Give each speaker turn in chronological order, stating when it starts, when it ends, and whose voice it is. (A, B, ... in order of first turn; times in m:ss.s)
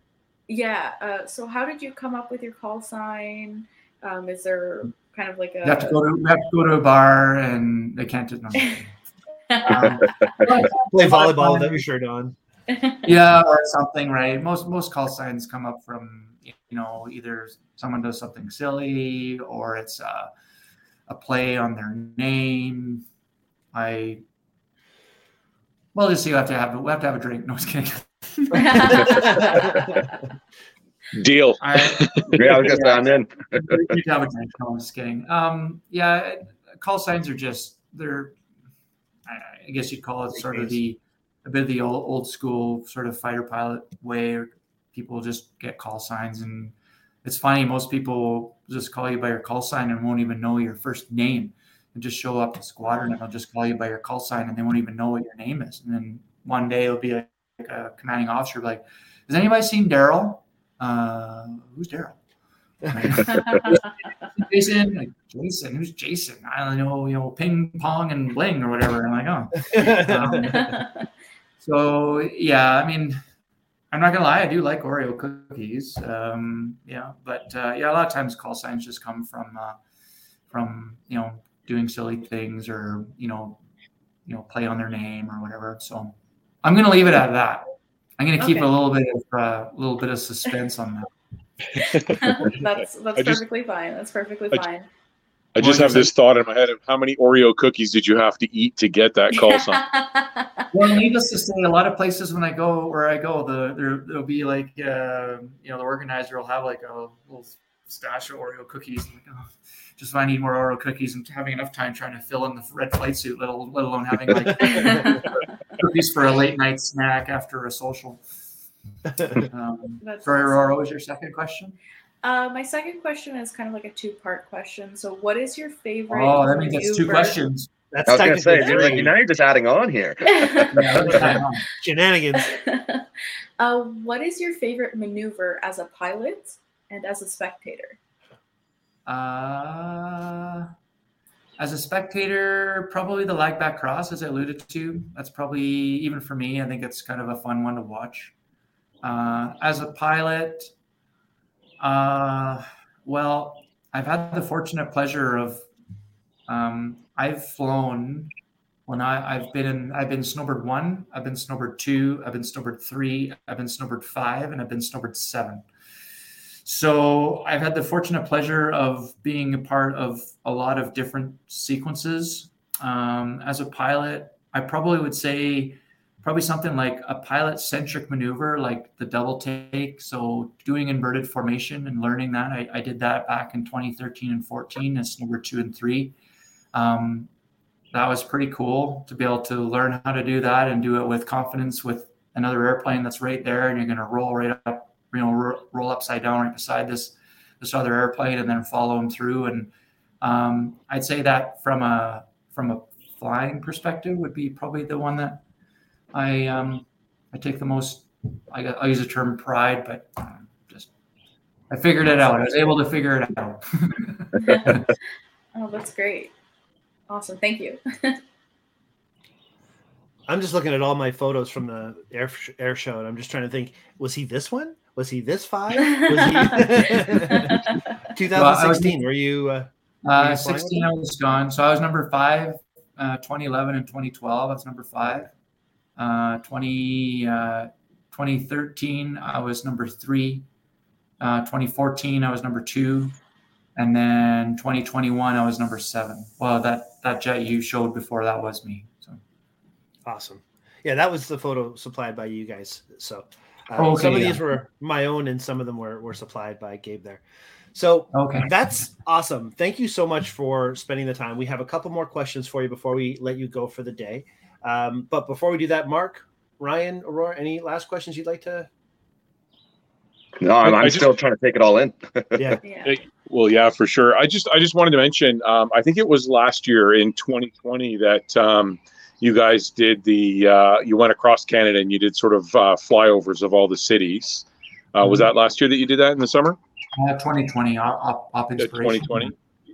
0:00.5-0:06.0 A
0:05.6-0:08.9 B
0:09.5-0:10.5 A
0:09.6-0:11.8 B
0:10.9-0:12.4 C
0:12.7-0:13.0 A
0:13.0-0:20.3 B
0:21.1-0:23.0 B
0:23.7-0:24.2 B
0:25.9-0:29.6 B
0:28.5-0:30.0 A
0:29.1-0:29.4 C
0:31.1-0:32.4 D
0:31.6-0:38.4 B
0:32.4-0:33.8 E
0:39.3-1:02.2 B
1:02.9-1:10.8 B
1:03.3-1:03.8 A
1:09.7-1:10.6 C
1:10.5-1:10.9 A
1:11.6-1:13.2 B
1:13.9-1:19.8 B
1:20.5-1:23.6 B
1:24.3-1:31.1 B
1:28.4-1:28.7 A
1:31.8-1:32.6 D
1:31.8-1:34.9 A
1:33.2-1:33.4 D
1:35.6-1:39.8 D
1:35.6-1:36.1 B
1:39.4-1:40.6 A
1:40.7-1:58.2 B
1:54.6-1:55.4 A
1:59.4-2:01.8 B
2:00.0-2:00.8 A
2:02.2-2:07.4 A
2:06.1-2:07.7 B
2:07.9-2:09.2 C
2:08.1-2:10.8 E
2:08.7-2:09.0 A
2:10.3-2:10.8 A
2:10.7-2:11.6 B
2:11.0-2:12.5 C
2:12.3-2:13.1 A
2:13.6-2:18.0 A
2:19.1-2:20.7 B
2:21.6-2:28.3 B
2:29.0-2:30.7 B
2:31.8-2:35.6 B
2:36.5-2:38.3 B
2:38.9-2:45.6 B
2:46.6-3:06.1 B
3:06.7-3:07.3 B
3:07.9-3:19.7 B
3:20.2-3:25.4 B
3:26.1-3:30.9 B
3:31.7-3:34.9 B
3:34.4-3:34.8 A
3:35.6-3:36.3 A
3:37.1-3:38.2 A
3:40.3-3:50.8 C
3:45.8-3:47.5 A
3:48.3-3:49.0 B
3:50.0-3:55.3 B
3:56.0-4:00.4 B
4:01.2-4:03.2 B
4:03.8-4:09.2 B
4:10.0-4:17.2 C
4:13.8-4:14.5 B
4:17.7-4:28.7 C
4:18.1-4:18.5 B
4:30.4-4:32.6 E
4:30.6-4:31.1 D
4:32.4-4:32.6 C
4:32.6-4:33.0 A
4:32.8-4:46.6 D
4:45.0-4:45.3 B
4:47.0-4:49.4 B
4:48.6-4:49.3 D